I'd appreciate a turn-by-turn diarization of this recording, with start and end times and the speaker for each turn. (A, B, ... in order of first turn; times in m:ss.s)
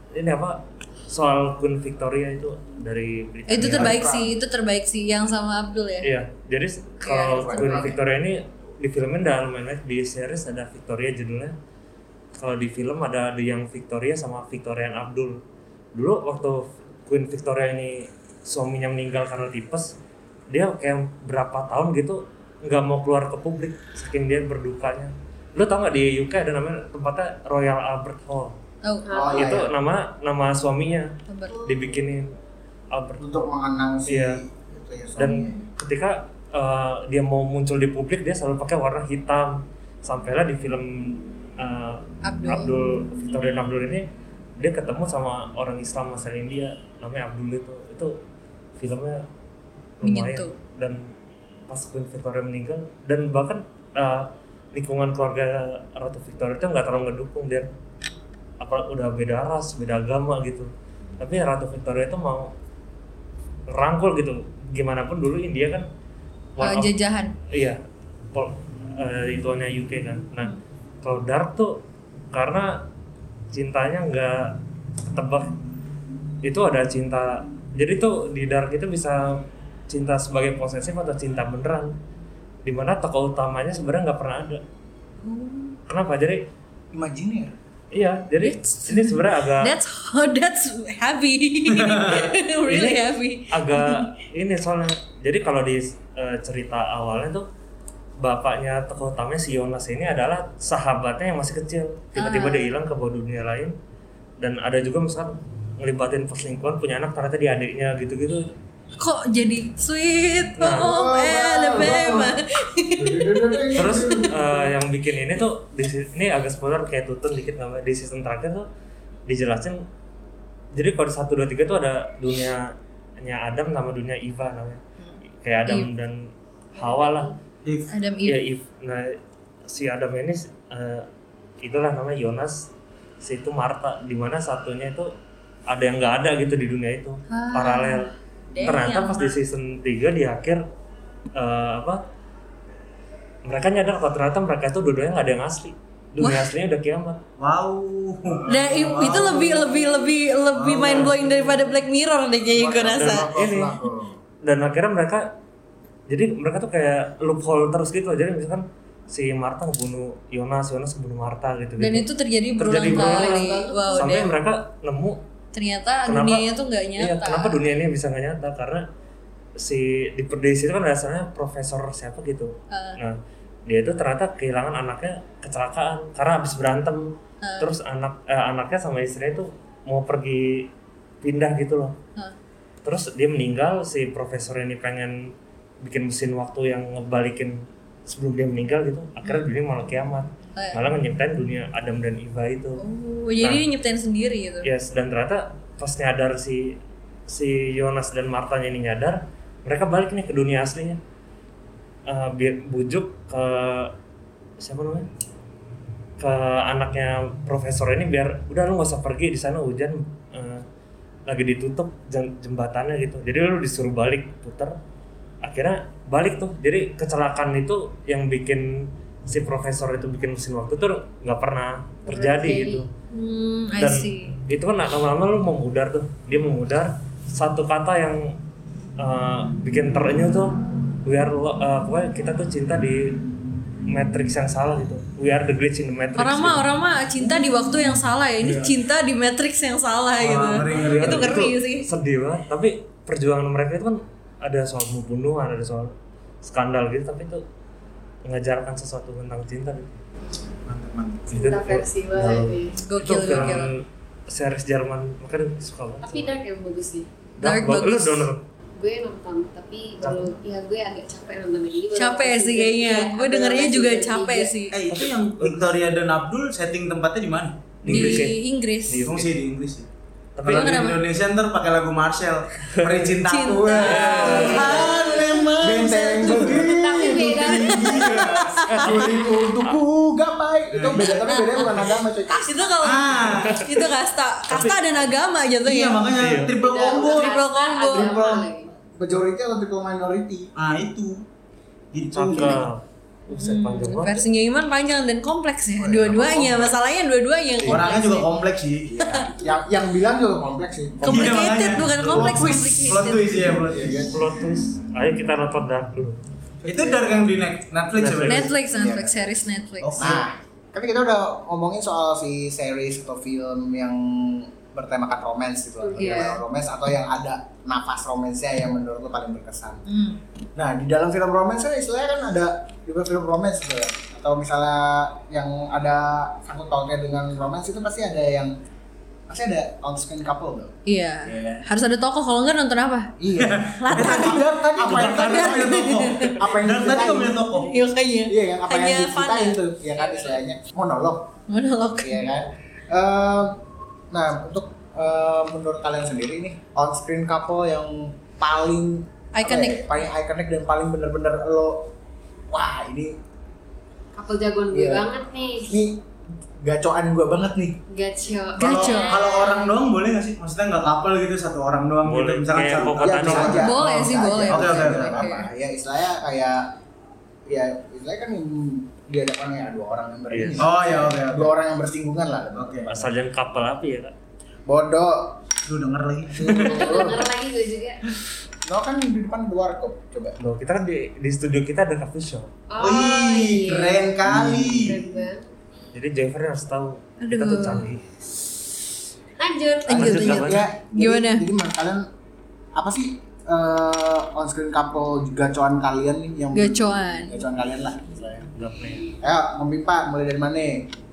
0:00.1-0:04.0 A
0:03.5-0:06.1 B
0:03.7-0:04.3 C
0:06.0-0:11.6 A
0:07.0-0:07.9 B
0:07.4-0:08.0 C
0:12.4-0:15.4 A
0:15.9-0:20.0 A
0:20.5-0:28.6 A
0:28.8-0:29.1 B
0:29.1-0:29.6 D
0:29.1-0:29.7 C
0:29.3-0:32.4 A
0:31.3-0:31.6 B
0:31.5-0:32.0 D
0:32.9-0:33.5 A
0:33.2-0:35.6 C
0:34.1-0:34.4 A
0:35.2-0:44.1 A
0:42.2-0:42.7 B
0:44.6-0:48.2 A
0:48.8-0:49.3 A
0:50.0-0:51.1 A
0:50.0-0:50.6 B
0:51.7-0:57.7 A
0:58.6-1:02.5 A
1:03.7-1:05.9 A
1:06.6-1:06.9 A
1:06.6-1:07.4 B
1:07.5-1:07.8 A
1:08.3-1:12.9 A
1:13.5-1:14.6 A
1:15.1-1:15.5 A
1:16.4-1:22.0 A
1:22.6-1:24.6 A
1:25.2-1:25.8 B
1:25.9-1:26.5 A
1:26.9-1:27.5 C
1:27.9-1:29.8 A
1:28.4-1:34.1 B
1:31.7-1:32.3 E
1:32.6-1:37.5 A
1:38.2-1:43.8 A
1:42.2-1:42.7 B
1:44.4-1:48.5 A
1:49.0-1:54.2 B
1:50.6-1:50.9 A
1:50.8-1:52.4 C
1:53.0-1:54.7 C
1:53.7-1:58.7 A
1:59.3-1:59.8 A
2:00.7-2:04.8 A
2:05.0-2:05.9 B
2:05.4-2:07.3 A
2:06.7-2:07.4 D
2:07.6-2:07.9 E
2:07.9-2:08.4 B
2:08.2-2:11.1 A
2:11.6-2:12.7 A
2:13.2-2:15.1 A
2:15.7-2:20.6 A
2:17.3-2:19.4 B
2:21.4-2:22.0 A
2:23.4-2:27.2 A
2:26.2-2:26.5 B
2:27.4-2:30.0 E
2:28.4-2:28.7 C
2:28.5-2:33.3 B
2:30.5-2:31.2 E
2:32.6-2:34.2 C
2:32.9-2:33.8 A
2:34.4-2:35.4 A
2:36.1-2:42.1 A
2:41.8-2:44.3 B
2:42.6-2:45.2 A
2:42.8-2:44.2 D
2:45.5-2:47.6 B
2:46.1-2:48.9 A
2:49.6-3:00.7 A
2:52.7-2:53.0 B
2:57.4-2:57.7 B
3:01.2-3:02.0 A
3:02.8-3:12.8 A
3:10.6-3:10.8 B
3:12.8-3:14.7 B
3:14.6-3:16.8 A
3:17.3-3:21.0 A
3:22.1-3:23.9 A
3:24.6-3:25.1 A
3:26.2-3:30.6 A
3:31.3-3:34.8 A
3:35.4-3:42.9 A
3:42.1-3:42.8 D
3:43.1-3:44.4 B
3:43.8-3:48.4 A
3:49.0-3:53.2 A
3:53.9-3:56.6 A
3:56.2-4:01.9 B
4:00.2-4:01.5 E
4:00.7-4:07.4 A
4:08.2-4:10.0 A
4:10.7-4:11.5 E
4:11.3-4:16.4 A
4:11.3-4:12.8 D
4:12.8-4:13.7 B
4:16.0-4:17.1 D
4:17.4-4:18.3 B
4:17.4-4:18.4 A
4:18.8-4:24.6 D
4:20.0-4:20.3 A
4:22.0-4:24.8 B
4:24.7-4:28.3 E
4:24.9-4:25.7 A
4:27.8-4:28.4 A
4:27.9-4:29.1 B
4:28.9-4:29.3 A
4:29.0-4:29.9 E
4:30.4-4:30.9 A
4:30.4-4:38.7 E
4:30.4-4:31.0 B
4:32.7-4:33.2 A
4:33.2-4:36.5 B
4:33.8-4:34.8 A
4:34.4-4:34.9 C
4:34.6-4:35.3 D
4:35.6-4:37.5 C
4:36.5-4:38.2 D
4:37.4-4:39.1 B
4:38.6-4:42.7 C
4:38.7-4:39.1 A
4:40.7-4:41.2 E
4:41.0-4:46.1 B
4:42.8-4:43.7 E
4:44.5-4:44.8 A
4:45.6-4:47.4 E
4:46.1-4:46.5 A
4:46.4-4:48.7 D
4:46.8-4:48.2 B
4:48.0-4:50.5 C
4:50.6-4:51.2 E
4:51.9-4:52.7 E
4:52.1-4:54.2 A
4:52.4-4:52.6 B
4:53.3-4:58.3 B
4:55.8-4:56.7 C
4:57.6-4:57.9 A
4:57.7-4:58.9 E
4:58.9-5:01.5 C
4:59.0-4:59.3 B
5:01.0-5:04.1 E
5:01.0-5:03.4 B
5:03.4-5:04.2 C
5:03.9-5:06.2 A
5:06.6-5:08.5 E
5:06.6-5:07.2 C
5:08.0-5:08.5 A
5:08.3-5:10.2 B
5:08.7-5:09.2 C
5:09.8-5:10.3 E
5:10.0-5:19.8 C
5:15.8-5:16.3 D
5:16.0-5:16.4 B
5:19.9-5:20.2 B
5:20.6-5:28.5 C
5:29.3-5:30.7 C
5:30.9-5:33.1 B
5:31.3-5:31.6 C
5:33.2-5:37.6 C
5:33.4-5:37.7 E
5:33.8-5:36.4 B
5:34.9-5:35.1 A
5:37.6-5:39.6 B
5:38.3-5:41.3 C
5:40.0-5:40.3 D
5:41.5-5:42.3 B
5:42.0-5:43.6 C
5:44.1-5:51.9 C
5:49.3-5:49.9 B
5:52.5-5:53.2 C
5:54.2-5:55.7 D
5:54.7-5:55.1 C
5:55.7-5:56.1 C
5:56.6-5:57.8 C
5:57.9-5:59.8 D
5:58.6-5:59.2 B
5:58.6-6:03.8 E
6:02.0-6:03.7 A
6:03.0-6:06.7 C
6:03.6-6:05.5 B
6:04.5-6:05.3 E
6:07.5-6:13.0 C
6:10.3-6:10.7 A
6:10.6-6:11.5 E
6:12.6-6:12.9 E
6:12.9-6:14.1 A
6:14.7-6:15.4 C
6:15.7-6:17.1 E
6:16.3-6:17.2 C
6:16.5-6:18.0 D
6:18.7-6:20.4 C
6:20.4-6:22.5 A
6:22.7-6:25.5 D
6:22.8-6:25.2 E
6:24.3-6:25.0 C
6:25.9-6:28.0 A
6:27.2-6:27.9 B
6:29.4-6:30.4 D
6:29.9-6:32.0 C
6:29.9-6:30.7 A
6:29.9-6:31.4 B
6:32.8-6:38.5 C
6:36.5-6:37.4 B
6:38.6-6:39.1 A
6:39.2-6:40.9 C